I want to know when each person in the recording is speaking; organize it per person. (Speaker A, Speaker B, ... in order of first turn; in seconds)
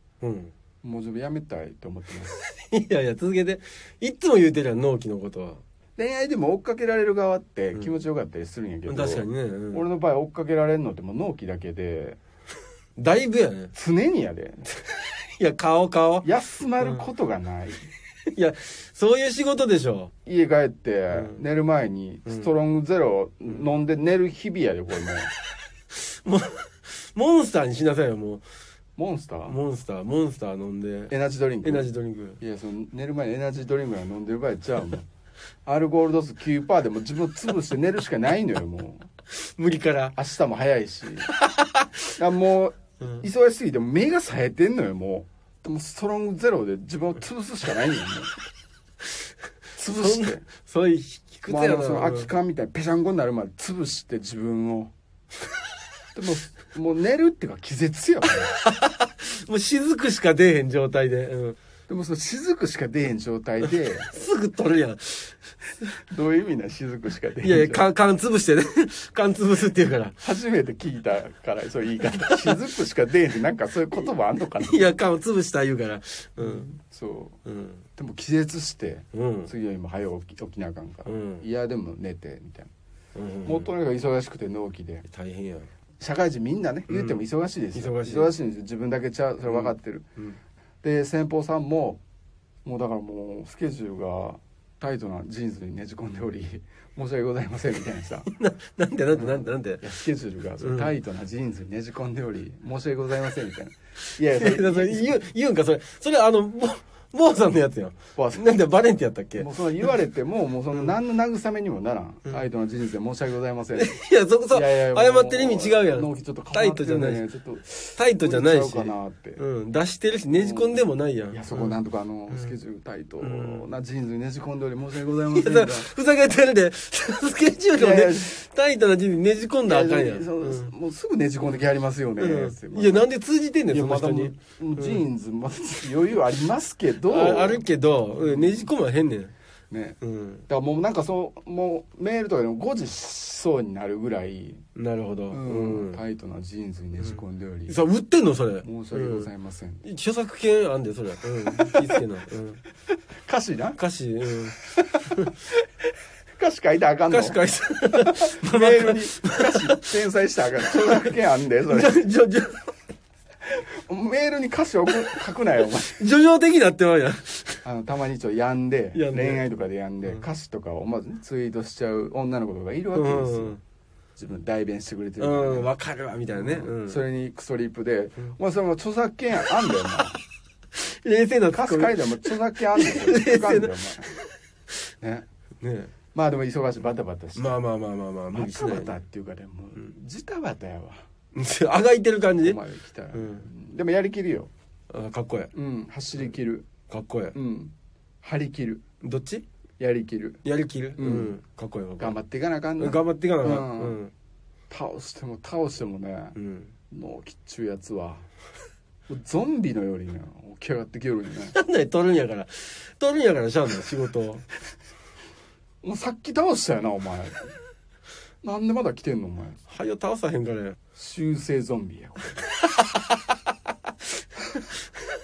Speaker A: 0.2-0.5, 2.3-5.6, 8.9-9.8, 13.0-13.7, 14.8-16.3, 16.8-17.1, 18.3-20.1, 25.9-28.4, 29.5-31.1, 31.6-32.4, 39.3-40.1, 41.3-42.0, 49.9-52.3, 58.5-61.6, 64.1-65.4, 67.4-70.2, 72.2-72.6, 74.6-76.7, 77.5-77.8, 79.1-79.5, 81.1-81.5, 83.2-83.7, 85.1-85.7, 86.9-87.2, 87.7-88.3, 89.5-90.4, 98.3-99.9, 100.6-100.9, 104.2-109.5, 113.8-117.2, 118.0-121.8, 123.2-123.7, 125.3-130.7, 132.2-135.0, 137.0-139.3, 140.0-140.5, 144.8-146.0, 147.7-149.3, 149.8-152.6, 153.8-154.6, 157.1-160.0, 160.7-161.2, 161.7-162.7, 165.8-167.6, 168.9-169.4, 172.9-173.6, 175.2-177.0, 180.7-184.3, 185.6-185.9, 187.3-189.0, 191.3-192.6, 193.1-193.5, 194.9-195.5, 196.9-197.3, 199.0-199.4, 200.4-202.2, 202.8-204.1, 206.4-206.7, 211.5-214.5, 219.7-220.8
Speaker B: 0.8-2.4, 6.0-12.2, 13.7-14.7, 16.2-17.9, 20.2-25.3, 29.0-29.6, 31.1-31.9, 32.4-35.1, 35.6-39.1, 40.1-41.3, 42.2-48.4, 49.8-50.5, 51.5-54.9, 56.1-58.5, 61.9-64.2, 66.1-67.8, 70.2-74.9, 76.4-77.4, 78.0-82.7, 83.4-85.1, 86.0-90.1, 90.8-92.0, 92.7-98.3, 99.1-105.2, 108.2-108.4, 109.4-119.4, 120.3-125.9, 127.8-128.3, 129.7-133.1, 133.7-138.7, 139.7-144.6, 145.3-147.8, 148.6-149.8, 153.2-153.8, 154.5-155.6, 156.4-162.0, 163.5-166.1, 167.6-173.6, 174.2-175.7, 176.3-180.2, 181.5-184.1, 186.1-187.5, 188.3-190.9, 192.4-194.5, 195.5-196.7, 197.3-198.8, 199.8-200.4, 201.0-201.4, 202.0-204.0, 204.7-206.4, 206.9-208.3, 209.1-211.6, 215.8-217.6, 218.4-219.7, 220.9-222.4